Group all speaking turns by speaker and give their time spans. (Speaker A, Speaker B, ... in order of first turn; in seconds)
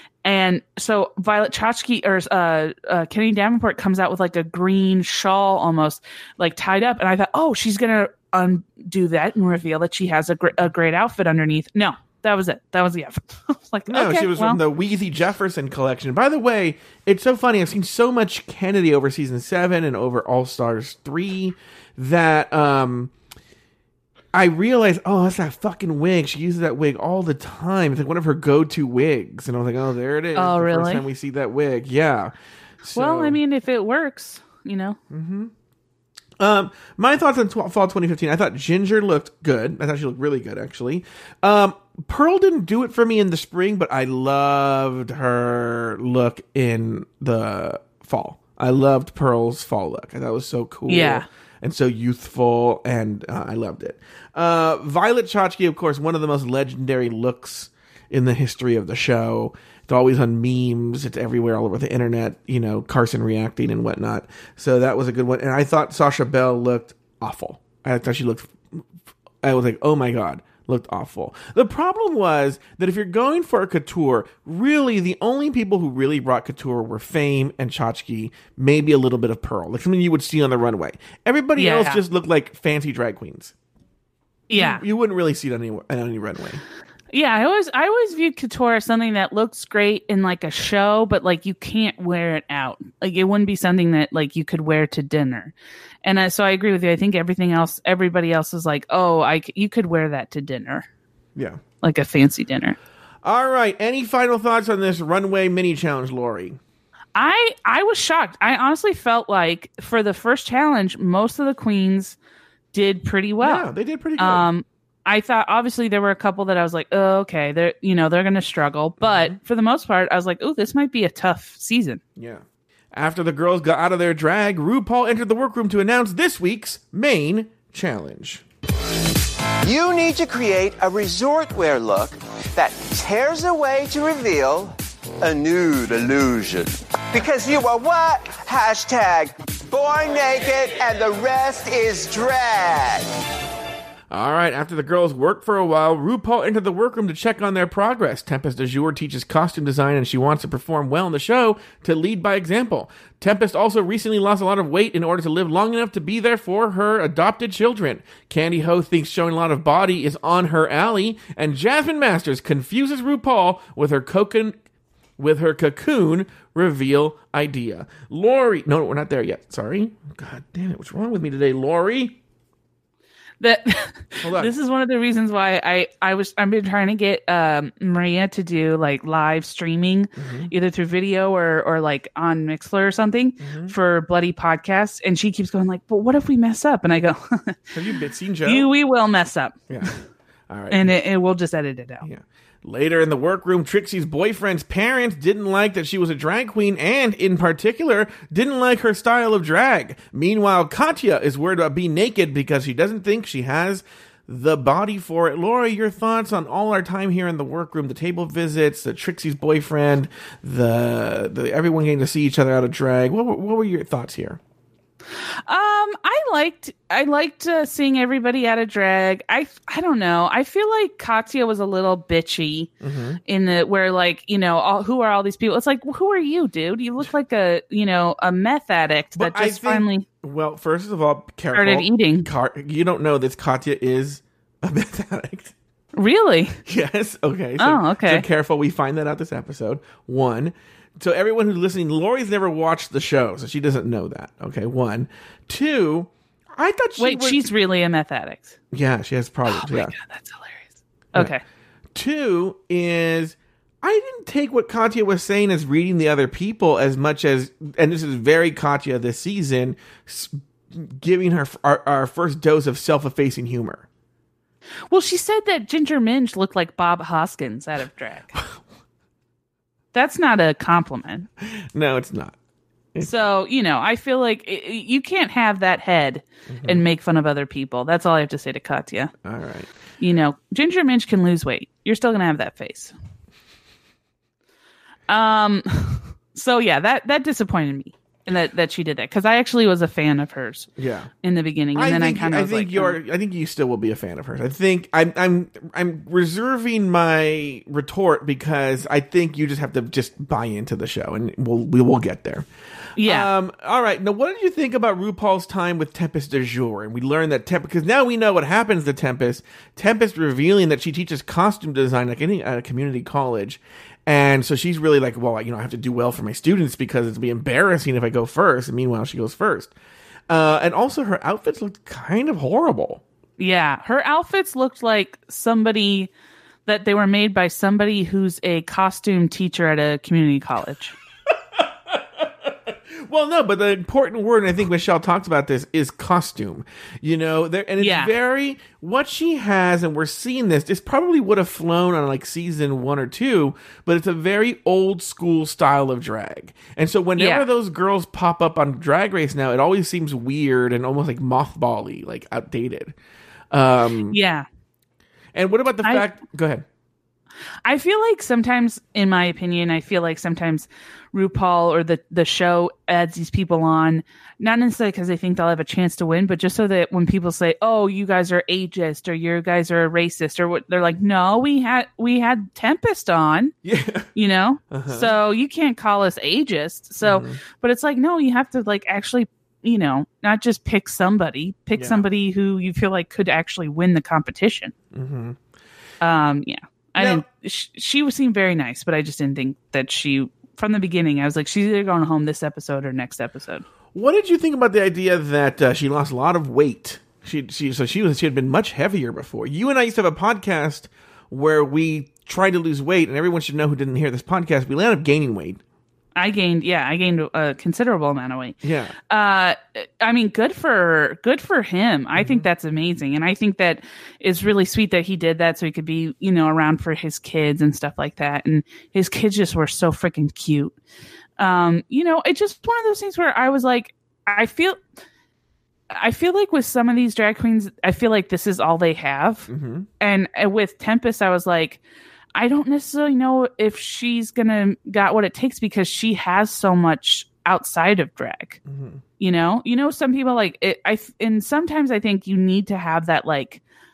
Speaker A: 0.2-14.6, 30.3-31.1, 32.9-35.0, 50.9-51.2, 81.5-82.0, 84.5-84.8, 87.1-100.9, 101.8-102.8, 107.1-112.2, 112.7-122.0, 173.4-187.7, 188.4-190.0, 190.7-192.1, 215.4-222.7, 223.2-230.1, 231.5-232.3, 235.9-236.6, 237.6-238.2, 247.0-248.6, 249.5-251.4, 264.9-268.4, 269.9-271.3, 273.0-279.1, 280.0-282.9, 285.1-290.7, 291.2-292.9, 303.0-303.3, 323.4-326.1, 326.6-331.0, 337.8-338.1, 347.2-347.5, 354.1-354.4, 357.6-373.5, 374.1-384.7, 386.0-393.6, 406.1-408.6, 409.1-420.8, 421.4-424.8, 425.9-429.5, 430.0-431.8, 432.3-438.6, 439.2-443.6
Speaker B: 13.9-23.1, 24.3-33.4, 35.1-35.5, 36.4-68.8, 69.4-83.5, 84.5-86.6, 101.3-101.6, 103.2-106.6, 113.4-114.5, 119.0-119.3, 122.2-128.4, 144.1-164.5, 165.2-172.2, 174.2-174.5, 180.2-180.5, 183.4-183.7, 187.7-188.7, 190.5-190.9, 192.0-214.4, 222.8-223.2, 229.2-235.5, 236.7-247.4, 248.7-249.9, 251.9-263.8, 271.4-272.4, 276.5-276.8, 279.2-279.7, 290.8-291.1, 291.7-302.5, 303.0-319.7, 320.3-323.0, 331.6-352.9, 353.5-354.2, 355.3-356.6, 373.6-374.1, 374.7-375.1, 377.0-377.4, 381.7-382.1, 384.9-385.4, 387.0-387.2, 393.9-405.6, 408.6-408.9, 412.2-412.4, 429.5-429.9, 438.7-439.0
Speaker C: 129.6-143.0